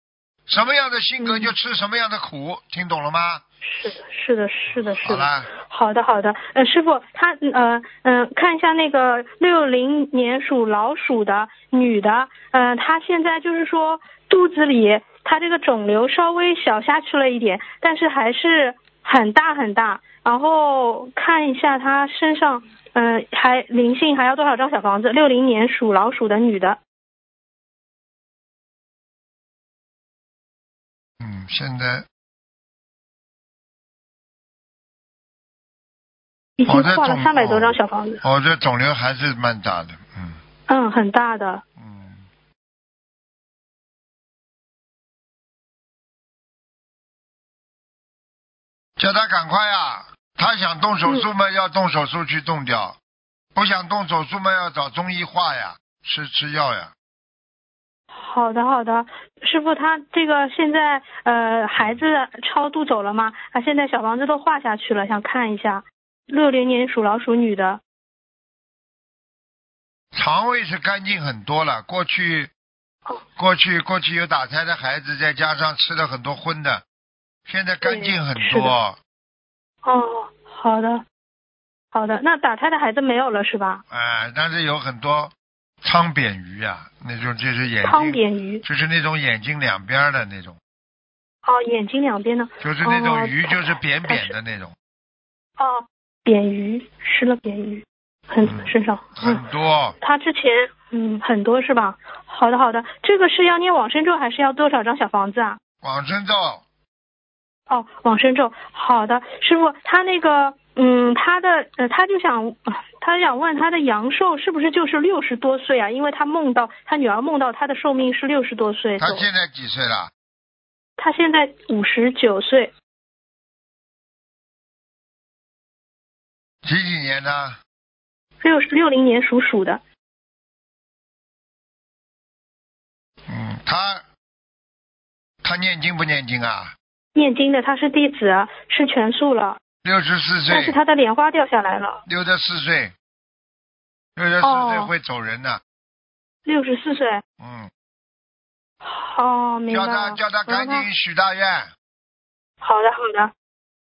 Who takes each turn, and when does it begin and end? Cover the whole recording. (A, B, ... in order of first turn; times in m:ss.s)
0:00.5-0:03.4 A
0:01.2-0:01.5 B
0:03.6-0:26.8 B
0:04.7-0:05.5 A
0:31.2-0:32.0 A
0:36.6-0:38.2 B
0:36.6-0:40.4 A
0:40.7-0:41.6 B
0:41.8-0:42.2 A
0:49.0-0:53.0 A
0:53.5-0:56.9 A
0:58.1-1:07.8 B
1:10.1-1:12.5 A
1:13.4-1:16.8 A
1:17.4-1:19.0 A
1:17.8-1:18.7 B
1:19.8-1:21.0 B
1:21.9-1:23.8 B
1:23.9-1:30.6 A
1:27.8-1:28.6 B
1:31.4-1:34.3 B
1:32.6-1:34.7 A
1:35.6-1:39.4 B
1:38.4-1:40.0 A
1:40.0-1:45.6 B
1:45.8-1:46.6 A
1:47.7-1:59.3 B
1:59.0-2:00.1 A
2:01.0-2:02.7 B
2:06.6-2:07.6 A
2:08.4-2:09.8 B
2:13.3-2:14.0 A
2:15.4-2:16.7 A
2:17.1-2:19.6 B
2:19.8-2:20.8 A
2:20.5-2:22.0 B
2:22.0-2:22.9 A
2:24.2-2:25.6 A
2:24.4-2:24.9 B
2:26.4-2:27.2 B
2:27.4-2:27.7 A
2:28.8-2:30.9 B
2:29.7-2:31.7 A
2:32.6-2:33.3 B